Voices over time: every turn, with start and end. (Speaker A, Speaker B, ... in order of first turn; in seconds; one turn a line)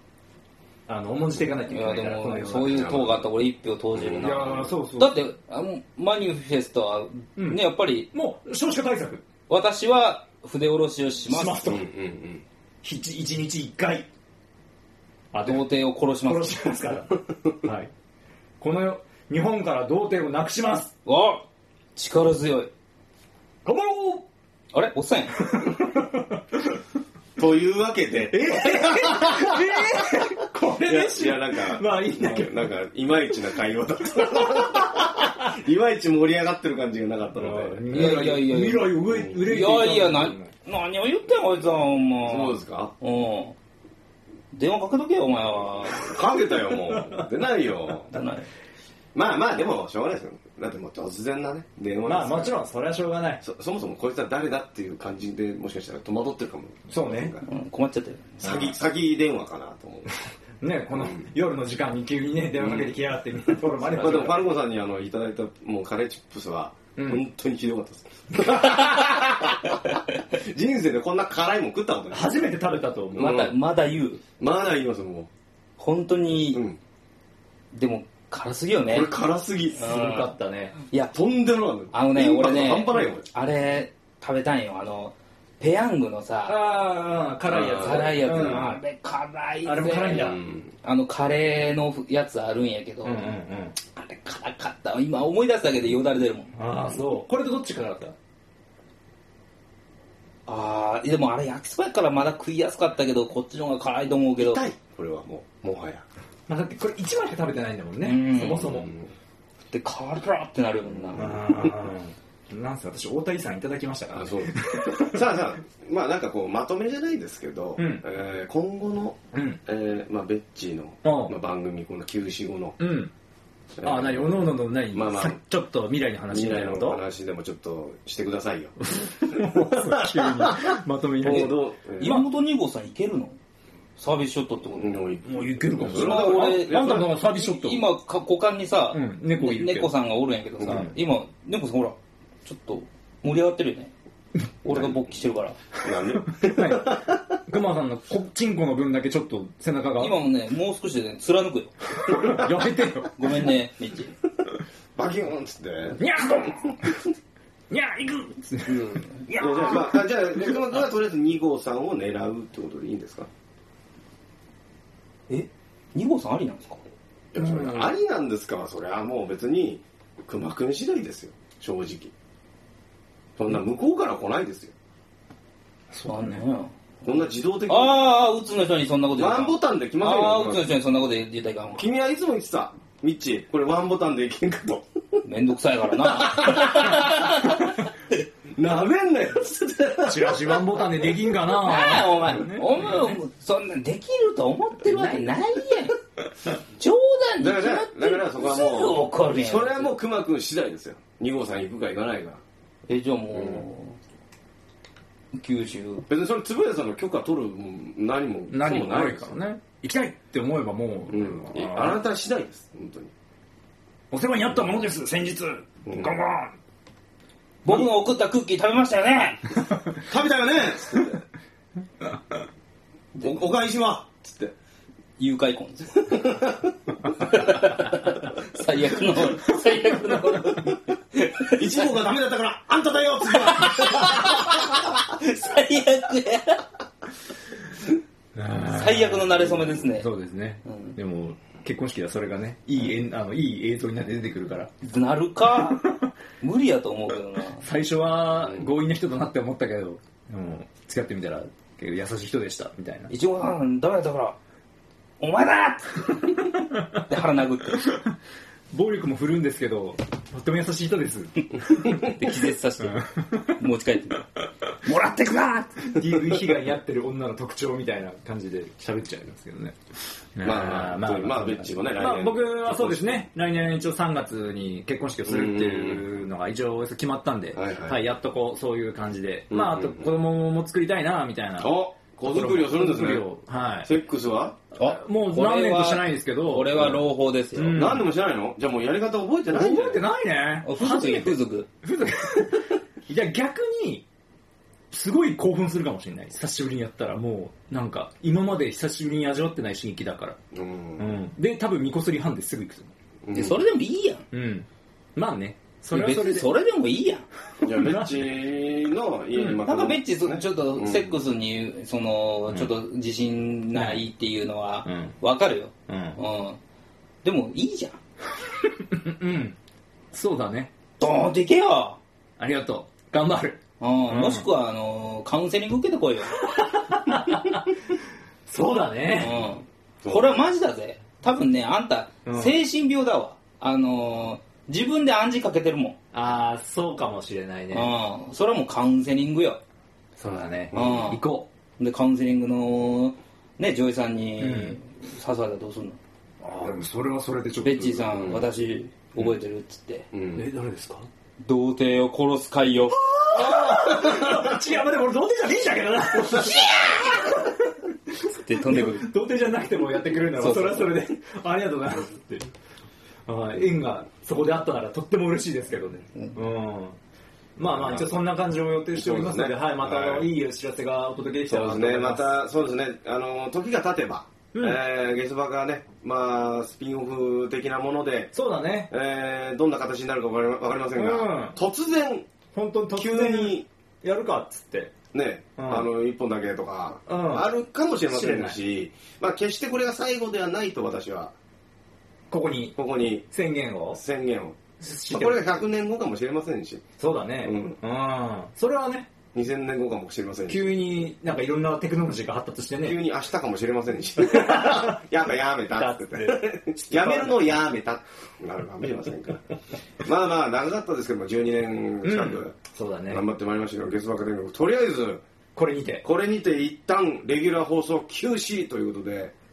Speaker A: 0.9-2.9
Speaker B: 1.7-8.1
Speaker C: 2.7-3.3
Speaker C: 3.9-4.7
Speaker A: 4.2-5.2
Speaker A: 7.3-9.3
Speaker B: 9.5-11.7
Speaker A: 11.3-11.8
Speaker C: 11.6-12.4
Speaker A: 12.8-14.1
Speaker A: 15.3-15.7
Speaker B: 15.4-16.8
Speaker A: 16.2-17.9
Speaker A: 18.6-20.9
Speaker B: 21.0-22.7
Speaker A: 23.6-24.3
Speaker B: 24.7-25.4
Speaker A: 25.4-26.8
Speaker C: 27.4-29.9
Speaker A: 28.3-32.7
Speaker C: 30.8-38.4
Speaker A: 37.3-40.5
Speaker B: 37.9-43.5
Speaker C: 39.1-39.4
Speaker C: 42.2-42.9
Speaker B: 44.5-46.2
Speaker C: 46.0-48.1
Speaker B: 48.1-48.5
Speaker C: 49.1-52.6
Speaker A: 52.0-53.4
Speaker C: 53.4-57.5
Speaker A: 56.9-57.3
Speaker B: 57.4-58.4
Speaker C: 58.4-60.1
Speaker A: 58.4-58.7
Speaker A: 60.6-64.4
Speaker C: 60.9-61.3
Speaker C: 62.6-62.9
Speaker C: 63.9-72.5
Speaker A: 67.0-67.2
Speaker A: 72.1-73.5
Speaker B: 73.1-74.2
Speaker C: 73.2-73.5
Speaker C: 74.4-75.3
Speaker B: 75.8-76.6
Speaker C: 76.5-76.8
Speaker B: 77.7-79.1
Speaker C: 78.9-79.9
Speaker B: 79.8-80.3
Speaker A: 79.8-80.8
Speaker C: 81.1-83.2
Speaker B: 81.9-86.6
Speaker A: 86.5-88.8
Speaker C: 87.5-88.6
Speaker B: 87.5-93.3
Speaker A: 89.6-90.4
Speaker C: 90.1-90.7
Speaker A: 93.0-93.8
Speaker B: 93.9-96.5
Speaker A: 96.5-98.1
Speaker B: 100.5-104.6
Speaker C: 104.4-106.0
Speaker A: 106.5-108.9
Speaker B: 108.0-108.8
Speaker C: 108.7-109.1
Speaker B: 109.7-111.3
Speaker C: 110.9-111.7
Speaker A: 111.1-115.2
Speaker C: 114.1-122.8
Speaker A: 117.8-118.0
Speaker A: 119.3-119.6
Speaker A: 121.0-121.3
Speaker A: 122.8-123.1
Speaker C: 123.8-125.4
Speaker A: 123.8-127.0
Speaker C: 126.3-132.2
Speaker A: 128.8-132.3
Speaker B: 131.3-133.4
Speaker B: 134.0-135.0
Speaker C: 134.8-137.1
Speaker A: 135.2-137.8
Speaker B: 135.9-143.9
Speaker A: 138.9-139.9
Speaker C: 140.6-140.9
Speaker A: 140.7-140.9
Speaker B: 144.6-145.6
Speaker C: 145.8-147.4
Speaker A: 145.9-150.2
Speaker B: 150.0-151.7
Speaker A: 152.0-153.1
Speaker C: 152.1-152.8
Speaker B: 153.1-154.1
Speaker C: 154.9-156.8
Speaker A: 156.0-157.0
Speaker A: 157.7-160.8
Speaker C: 159.3-163.3
Speaker B: 165.3-166.8
Speaker C: 167.3-172.1
Speaker A: 167.3-167.9
Speaker C: 173.4-174.7
Speaker A: 175.9-176.4
Speaker B: 176.1-177.1
Speaker C: 177.0-178.0
Speaker B: 177.7-181.8
Speaker C: 179.2-180.7
Speaker C: 181.8-185.2
Speaker B: 185.2-187.9
Speaker C: 186.1-187.5
Speaker C: 188.5-190.7
Speaker A: 190.1-193.2
Speaker B: 191.5-196.0
Speaker A: 194.8-195.3
Speaker B: 196.8-199.9
Speaker C: 197.4-202.4
Speaker B: 202.9-204.0
Speaker C: 203.3-203.6
Speaker B: 205.3-206.1
Speaker C: 206.1-209.4
Speaker A: 208.5-212.0
Speaker C: 211.1-213.1
Speaker A: 214.1-216.6
Speaker C: 215.8-216.2
Speaker B: 217.6-219.5
Speaker C: 220.0-221.2
Speaker C: 223.2-224.5
Speaker B: 225.2-226.3
Speaker C: 226.1-226.7
Speaker B: 227.2-232.1
Speaker C: 231.4-234.5
Speaker B: 233.3-236.6
Speaker A: 238.3-244.7
Speaker B: 238.7-240.1
Speaker B: 240.6-240.9
Speaker B: 244.8-247.7
Speaker A: 245.6-246.1
Speaker A: 247.6-253.1
Speaker B: 253.1-254.3
Speaker B: 255.2-257.9
Speaker A: 257.8-258.1
Speaker A: 258.7-262.0
Speaker B: 261.8-264.3
Speaker A: 262.8-263.4
Speaker B: 264.8-265.9
Speaker A: 265.9-269.8
Speaker A: 270.3-283.9
Speaker C: 270.4-273.2
Speaker C: 275.2-276.0
Speaker C: 277.5-278.1
Speaker C: 279.5-280.1
Speaker C: 281.6-283.3
Speaker C: 283.8-284.6
Speaker A: 284.7-286.9
Speaker B: 284.8-287.9
Speaker A: 287.5-288.1
Speaker C: 287.7-290.0
Speaker A: 289.5-294.1
Speaker B: 290.6-291.7
Speaker A: 294.9-300.4
Speaker C: 300.5-301.1
Speaker A: 301.0-302.9
Speaker C: 303.2-303.6
Speaker B: 303.3-304.2
Speaker A: 304.3-306.5
Speaker B: 305.9-307.3
Speaker C: 307.6-311.2
Speaker A: 307.6-308.3
Speaker A: 309.3-309.6
Speaker B: 309.6-316.6
Speaker A: 313.7-314.1
Speaker A: 314.8-315.2
Speaker A: 315.9-316.2
Speaker B: 317.2-318.0
Speaker A: 318.6-319.6
Speaker A: 320.1-320.7
Speaker B: 321.0-322.0
Speaker A: 322.4-324.5
Speaker B: 323.8-327.0
Speaker A: 326.4-327.7
Speaker A: 328.5-329.5
Speaker B: 329.1-336.0
Speaker C: 330.0-330.4
Speaker A: 332.2-332.6
Speaker A: 336.1-337.9
Speaker B: 337.7-339.6
Speaker A: 340.2-341.5
Speaker C: 340.7-341.2
Speaker B: 340.7-341.2
Speaker B: 341.8-346.0
Speaker A: 344.4-344.8
Speaker A: 346.4-348.4
Speaker B: 347.6-350.1
Speaker C: 348.1-348.4
Speaker C: 350.1-350.5
Speaker A: 350.3-351.1
Speaker B: 351.4-353.6
Speaker A: 353.3-362.5
Speaker B: 356.5-357.1
Speaker B: 358.3-359.1
Speaker B: 360.3-360.9
Speaker A: 363.2-367.0
Speaker A: 367.6-372.4
Speaker C: 367.7-368.2
Speaker C: 368.9-370.3
Speaker C: 371.5-378.3
Speaker A: 374.5-374.8
Speaker A: 378.3-378.9
Speaker C: 378.9-382.3
Speaker A: 380.9-381.6
Speaker A: 382.5-384.9
Speaker C: 382.9-383.6
Speaker C: 385.1-391.3
Speaker A: 385.6-385.9
Speaker A: 387.1-387.5
Speaker A: 388.1-388.6
Speaker A: 392.3-394.0
Speaker C: 392.8-393.3
Speaker C: 393.9-394.6
Speaker A: 394.8-395.6
Speaker C: 395.1-396.9
Speaker A: 397.0-399.1
Speaker C: 397.4-397.8
Speaker C: 399.3-400.7
Speaker A: 400.5-403.0
Speaker C: 402.8-409.4
Speaker A: 404.2-405.0
Speaker A: 405.7-407.5
Speaker C: 410.0-412.5
Speaker A: 412.0-413.2
Speaker C: 413.1-415.2
Speaker A: 415.5-416.0
Speaker C: 416.0-419.3